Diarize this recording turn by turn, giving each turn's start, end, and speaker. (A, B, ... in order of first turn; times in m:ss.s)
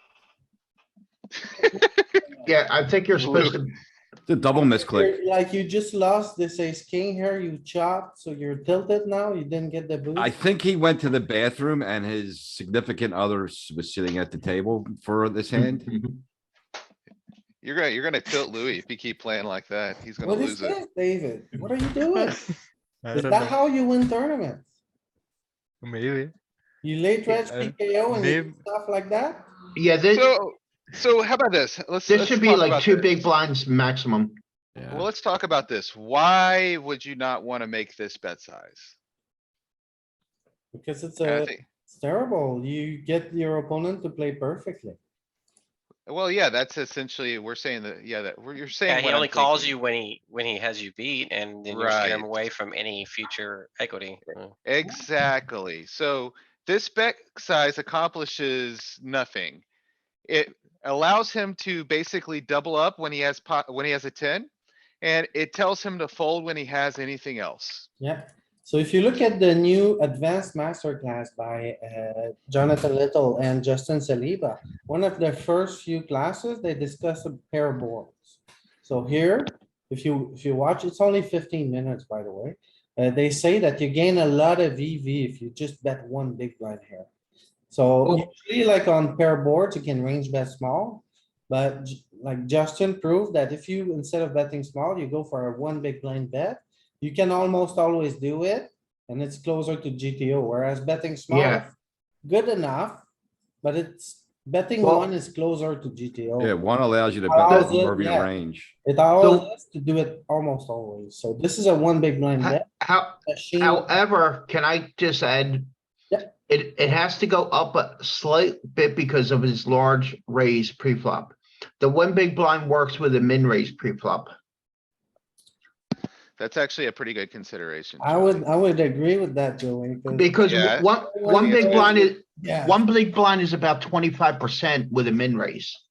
0:01.7-0:02.1 A
0:02.4-0:03.7 B
0:03.2-0:03.6 A
0:04.3-0:05.2 C
0:04.6-0:10.3 D
0:10.2-0:15.9 C
0:15.5-0:16.2 B
0:17.6-0:20.8 A
0:20.2-0:22.4 D
0:22.2-0:23.6 E
0:23.1-0:24.6 D
0:25.8-0:26.3 E
0:26.8-0:29.5 D
0:27.3-0:28.6 E
0:29.7-0:30.3 B
0:30.1-0:33.2 A
0:32.1-0:34.4 B
0:34.7-0:35.1 C
0:34.9-0:38.9 A
0:40.7-0:45.0 D
0:41.2-0:41.6 A
0:46.1-0:49.8 A
0:48.9-0:54.6 F
0:51.6-0:52.3 A
0:54.6-0:59.6 A
1:00.3-1:04.5 A
1:05.0-1:07.9 A
1:08.0-1:27.1 D
1:27.7-1:43.0 D
1:41.3-1:41.6 B
1:43.6-1:46.5 D
1:44.8-1:45.1 B
1:46.4-1:48.7 C
1:47.3-1:48.3 D
1:47.5-1:47.7 B
1:48.8-1:52.7 D
1:49.2-1:49.4 B
1:52.4-1:55.7 B
1:53.2-1:53.9 D
1:56.4-2:04.3 B
2:06.4-2:08.4 A
2:08.0-2:12.8 D
2:10.1-2:15.8 B
2:10.4-2:11.9 A